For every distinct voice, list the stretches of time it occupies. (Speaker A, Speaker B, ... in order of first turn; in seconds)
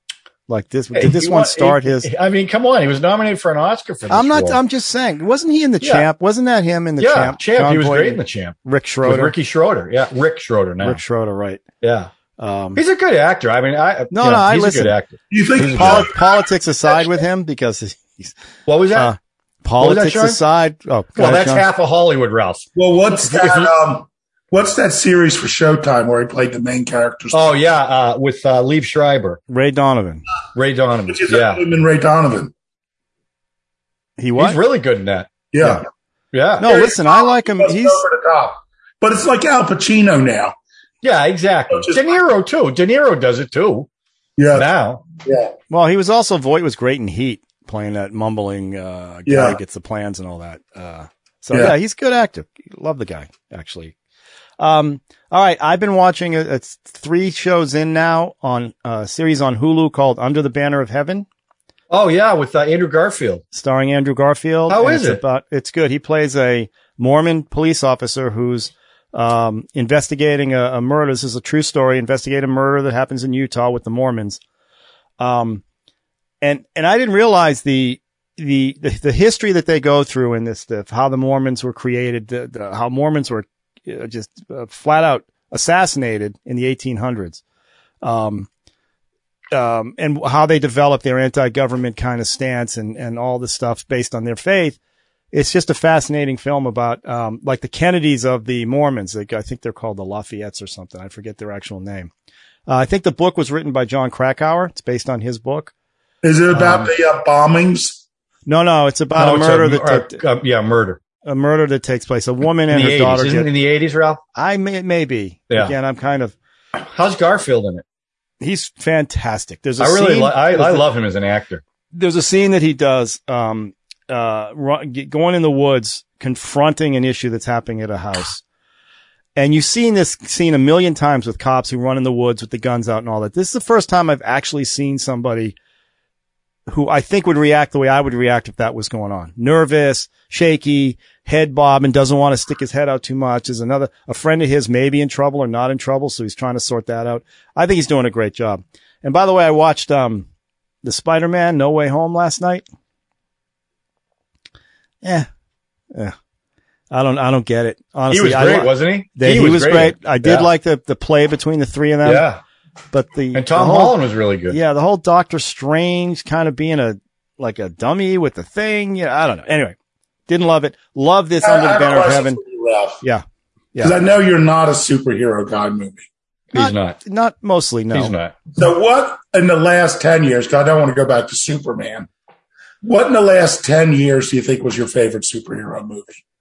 Speaker A: 0.5-2.1, 4.1-9.3, 10.8-11.6, 12.4-12.8, 14.1-15.0, 15.7-18.3, 18.9-21.7, 29.5-30.2, 34.2-34.6, 36.6-38.0, 45.7-54.0, 54.6-61.3, 63.5-74.4, 75.2-75.6, 76.4-87.4, 88.0-88.5, 89.5-94.8, 95.3-102.1, 102.7-105.7, 108.5-110.2, 111.2-113.5, 114.3-116.3, 118.4-120.9, 121.9-128.4, 129.4-135.6, 136.7-150.3, 150.8-152.6, 155.0-155.3, 156.9-162.3, 162.9-164.0, 164.5-169.8, 170.3-172.4, 173.0-173.9, 176.6-178.1
Speaker B: 0.9-4.6, 5.8-6.1, 7.0-11.0, 11.8-12.1, 12.8-16.1, 18.7-19.1, 19.8-20.4, 21.2-23.7, 27.3-29.4, 30.6-31.6, 34.4-35.3, 36.3-36.7, 41.0-43.9, 44.5-45.0, 61.9-63.4, 64.7-65.2, 106.5-106.9, 109.2-111.0, 112.7-114.2, 116.8-117.8, 119.8-121.6, 158.1-160.5, 162.0-162.4, 163.3-164.6, 176.5-177.0, 177.9-178.3
Speaker C: 15.3-16.2, 22.8-27.5, 31.1-32.5, 35.5-35.8, 36.6-40.5, 41.7-42.1, 44.4-44.7, 45.2-45.5, 49.3-49.6, 106.2-108.0, 171.4-173.0, 173.8-176.1, 178.6-182.1, 182.8-186.2